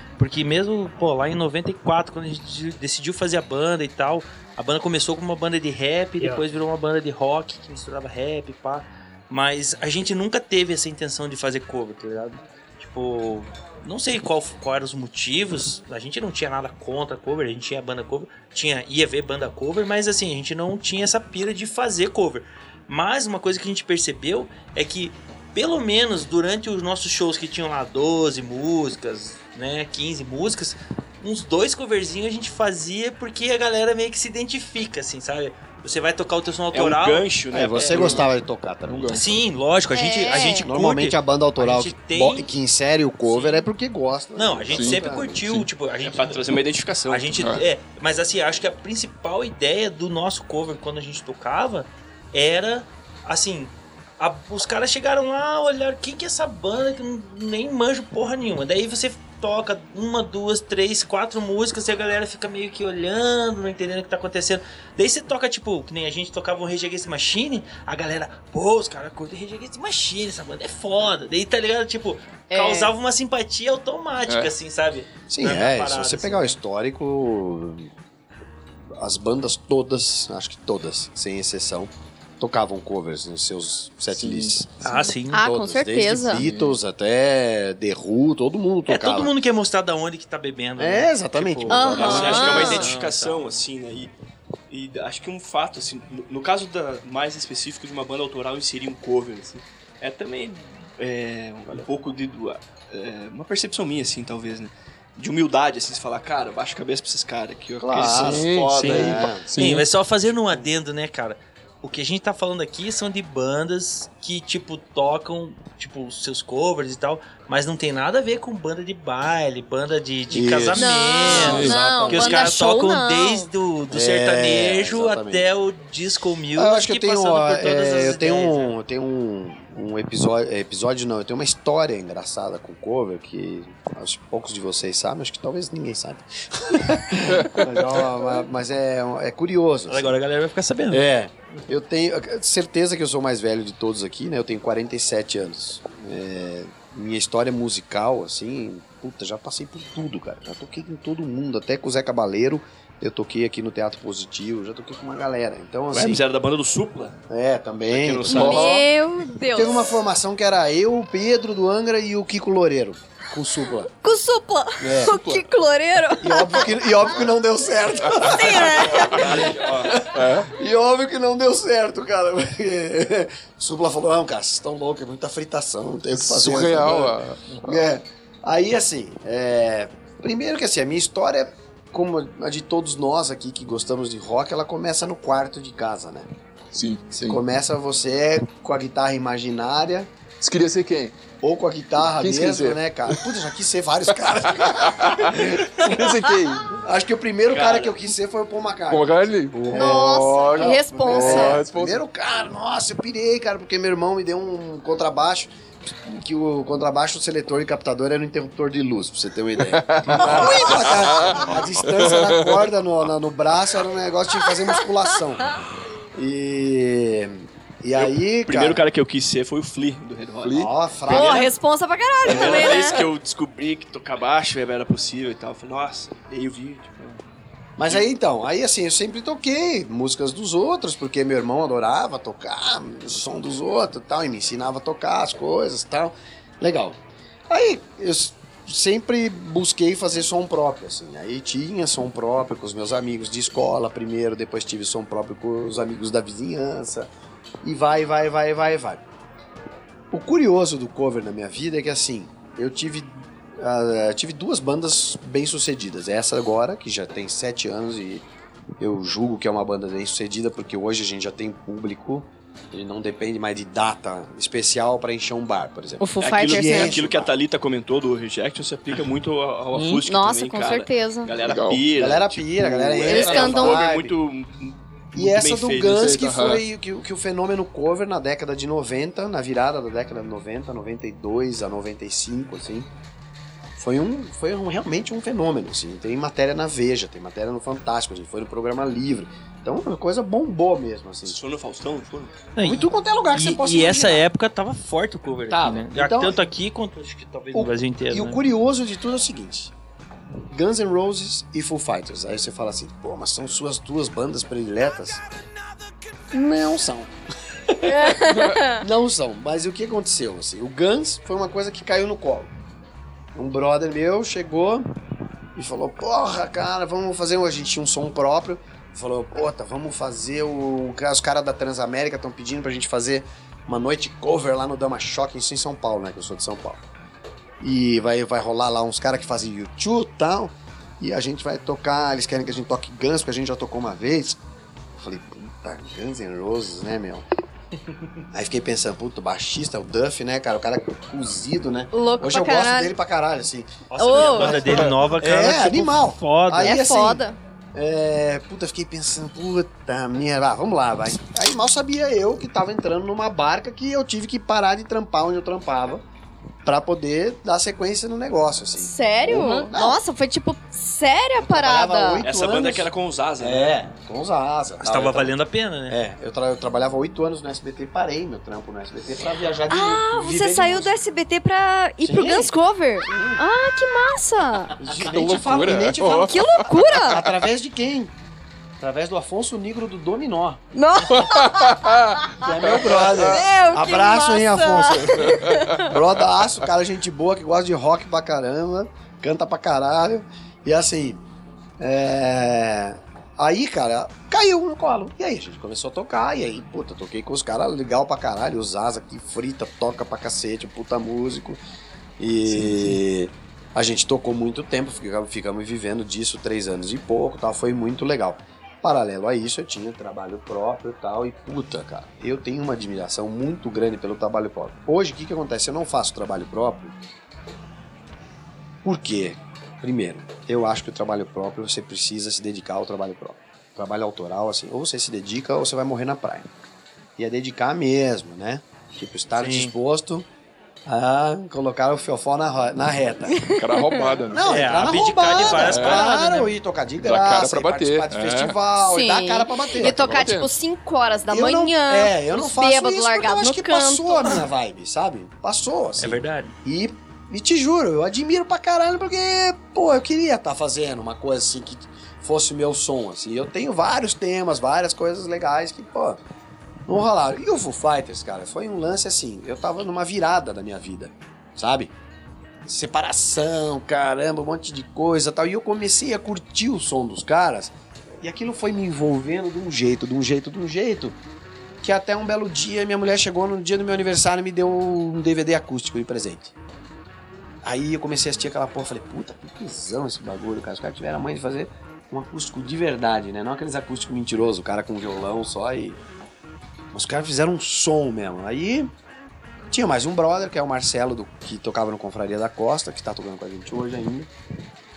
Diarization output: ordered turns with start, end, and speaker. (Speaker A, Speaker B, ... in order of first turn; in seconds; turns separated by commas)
Speaker A: 0.2-37.3, Speaker B: 36.7-38.3, Speaker C: 37.5-39.2, Speaker D: 37.8-38.2, Speaker D: 38.9-39.4, Speaker A: 39.1-42.5, Speaker E: 39.9-40.7, Speaker C: 40.3-45.6, Speaker A: 43.2-43.6, Speaker A: 44.3-46.6, Speaker D: 44.7-45.6, Speaker B: 46.0-47.5, Speaker A: 47.1-76.6, Speaker D: 47.4-47.6, Speaker E: 72.5-72.9, Speaker D: 74.3-74.5, Speaker C: 75.3-77.9, Speaker C: 79.0-89.3, Speaker D: 84.1-84.6, Speaker A: 84.8-85.5, Speaker E: 84.9-86.4, Speaker D: 86.3-86.8, Speaker A: 88.9-93.5, Speaker C: 90.8-92.8, Speaker E: 91.7-92.9, Speaker B: 91.9-94.1, Speaker B: 94.7-109.3, Speaker C: 107.8-109.5, Speaker D: 108.1-109.9, Speaker A: 109.5-128.7, Speaker C: 120.3-122.5, Speaker E: 120.7-123.5, Speaker D: 121.2-121.8, Speaker C: 123.9-125.5, Speaker C: 126.5-140.2, Speaker D: 137.3-138.1, Speaker A: 139.9-141.0, Speaker C: 140.9-156.2, Speaker B: 155.9-157.2, Speaker C: 157.3-158.8, Speaker B: 157.9-158.8, Speaker E: 158.3-160.0, Speaker D: 158.3-158.8, Speaker C: 159.5-163.9, Speaker E: 163.9-166.9, Speaker C: 164.8-165.2, Speaker D: 165.0-165.4, Speaker C: 166.2-186.3, Speaker E: 168.2-169.4, Speaker B: 168.5-170.1, Speaker D: 170.0-170.5, Speaker D: 176.1-177.6, Speaker D: 186.7-187.4, Speaker C: 187.1-190.1, Speaker D: 190.4-191.2, Speaker C: 191.4-215.6, Speaker D: 192.2-193.3, Speaker D: 194.5-196.8, Speaker B: 197.5-198.0, Speaker D: 198.9-202.0, Speaker E: 199.7-201.6, Speaker D: 209.7-212.7, Speaker E: 210.2-211.4, Speaker C: 216.1-218.8, Speaker B: 217.9-220.7, Speaker C: 220.4-221.5, Speaker D: 220.5-221.4, Speaker E: 221.1-223.1, Speaker B: 222.2-227.2, Speaker C: 222.3-222.8, Speaker C: 227.8-237.0, Speaker C: 237.5-247.1, Speaker C: 247.6-249.0, Speaker C: 250.1-258.2, Speaker C: 258.8-267.3, Speaker E: 266.0-266.9, Speaker B: 266.2-276.2, Speaker D: 269.7-270.0, Speaker E: 270.0-271.3, Speaker D: 271.4-271.9, Speaker C: 271.9-274.1, Speaker E: 273.1-273.8, Speaker C: 275.1-282.9, Speaker D: 275.9-276.6, Speaker C: 283.8-291.4, Speaker B: 291.2-292.4, Speaker A: 292.6-298.4, Speaker C: 292.6-294.3, Speaker C: 295.5-296.4, Speaker C: 297.5-299.7, Speaker C: 300.5-305.2, Speaker C: 306.3-307.1, Speaker E: 307.9-308.8, Speaker C: 307.9-312.5, Speaker C: 313.3-314.9, Speaker C: 315.5-326.8, Speaker C: 327.6-334.4, Speaker C: 334.9-337.2, Speaker C: 338.3-356.0, Speaker E: 341.9-342.9, Speaker A: 343.9-346.8, Speaker E: 344.0-344.7, Speaker E: 346.6-347.4, Speaker C: 356.6-360.0, Speaker E: 358.8-362.2, Speaker D: 359.3-359.7, Speaker C: 361.4-362.9, Speaker B: 362.2-363.7, Speaker C: 363.4-365.4, Speaker A: 364.8-366.0, Speaker C: 365.9-371.0, Speaker E: 369.7-374.8, Speaker C: 372.0-373.4, Speaker C: 374.8-378.1, Speaker D: 374.9-376.7, Speaker E: 376.0-377.2, Speaker C: 378.8-380.6, Speaker E: 380.7-381.9, Speaker D: 381.1-383.4, Speaker C: 382.4-391.2, Speaker E: 382.9-385.9, Speaker D: 385.1-385.9, Speaker C: 391.8-401.6, Speaker C: 402.2-417.0, Speaker C: 418.8-426.5, Speaker C: 427.2-430.3, Speaker A: 429.4-429.7, Speaker C: 430.9-433.5, Speaker E: 433.4-434.2, Speaker D: 433.6-434.5, Speaker C: 434.3-440.1, Speaker A: 434.4-436.5, Speaker D: 435.6-436.0, Speaker D: 437.0-438.6, Speaker E: 438.8-444.4, Speaker D: 439.8-440.5, Speaker C: 441.3-456.2, Speaker A: 446.0-446.5, Speaker C: 456.9-461.9, Speaker C: 462.6-471.2, Speaker C: 471.8-476.5, Speaker C: 477.6-486.0, Speaker C: 486.9-488.9, Speaker C: 489.7-494.3